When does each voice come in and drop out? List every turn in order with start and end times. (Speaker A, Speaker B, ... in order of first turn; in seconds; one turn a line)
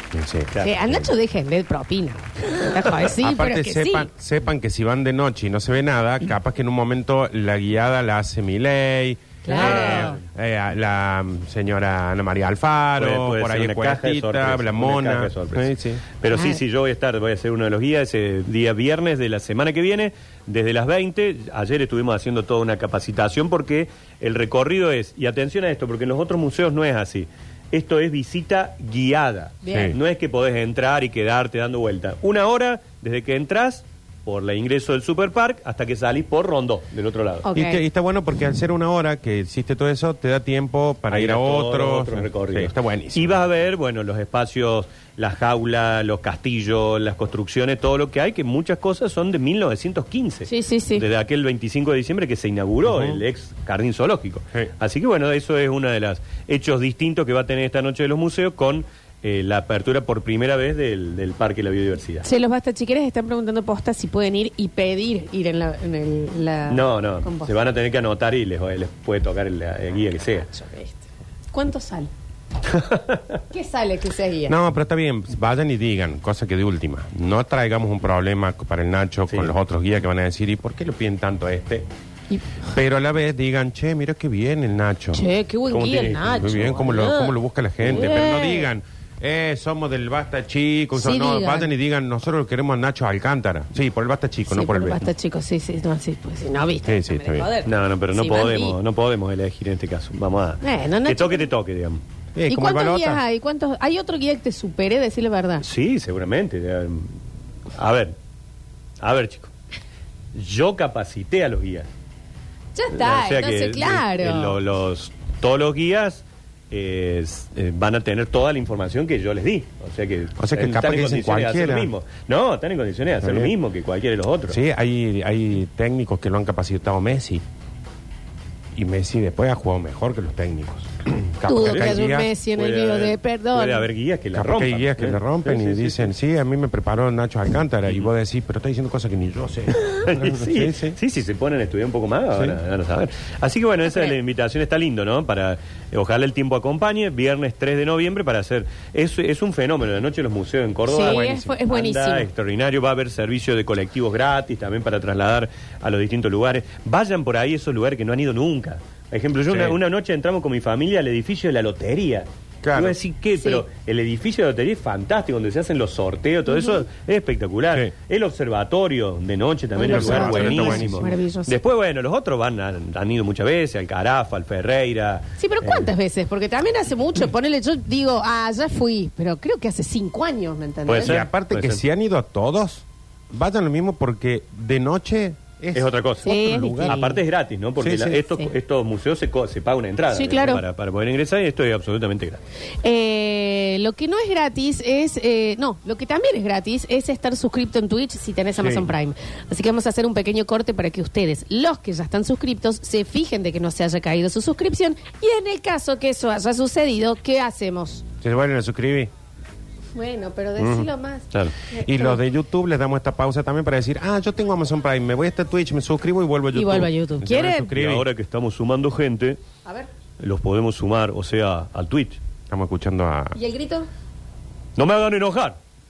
Speaker A: 0.1-1.1
Speaker B: 0.6-4.1
Speaker A: 3.1-16.0
Speaker B: 9.4-10.2
Speaker C: 9.5-10.2
Speaker C: 13.0-37.5
Speaker B: 16.3-16.6
Speaker B: 29.6-29.9
Speaker A: 29.7-30.0
Speaker B: 37.4-37.8
Speaker A: 37.5-43.5
Speaker C: 41.1-62.3
Speaker B: 50.5-51.0
Speaker A: 52.9-53.2
Speaker B: 62.2-67.5
Speaker C: 66.7-70.5
Speaker B: 70.5-72.1
Speaker C: 72.7-73.2
Speaker B: 73.5-74.6
Speaker A: 74.5-81.9
Speaker A: 82.7-85.2
Speaker B: 85.1-87.3
Speaker C: 85.7-86.5
Speaker A: 86.4-95.0
Speaker B: 87.9-88.7
Speaker B: 91.0-91.7
Speaker B: 94.5-98.8
Speaker A: 96.9-97.5
Speaker C: 97.6-102.0
Speaker B: 100.6-101.5
Speaker A: 102.3-103.2
Speaker B: 102.5-105.7
Speaker C: 105.6-107.1
Speaker C: 107.7-108.2
Speaker C: 109.0-109.5
Speaker C: 110.3-111.9
Speaker B: 112.8-114.6
Speaker C: 112.9-124.6
Speaker A: 120.4-121.9
Speaker A: 123.2-123.5
Speaker A: 124.5-127.4
Speaker A: 128.8-132.3
Speaker B: 131.5-133.9
Speaker C: 131.6-136.1
Speaker A: 134.3-141.0
Speaker C: 139.8-175.9
Speaker B: 143.9-144.1
Speaker B: 150.9-152.3
Speaker A: 151.0-151.5
Speaker A: 159.5-159.8
Speaker A: 162.6-163.0
Speaker B: 163.4-163.6
Speaker B: 169.8-171.5
Speaker A: 169.8-171.1
Speaker B: 175.4-181.2
Speaker C: 180.9-181.8
Speaker A: 181.0-187.1
Speaker C: 185.8-186.3
Speaker B: 186.2-187.1
Speaker C: 186.9-192.4
Speaker A: 187.8-188.2
Speaker B: 190.1-190.6
Speaker B: 192.8-208.0
Speaker A: 198.6-198.8
Speaker A: 208.2-209.1
Speaker B: 209.9-212.2
Speaker A: 210.6-210.9
Speaker A: 211.8-218.1
Speaker B: 216.5-217.7
Speaker C: 217.7-219.4
Speaker C: 220.2-222.2
Speaker A: 222.5-223.4
Speaker B: 223.3-223.9
Speaker C: 224.8-225.6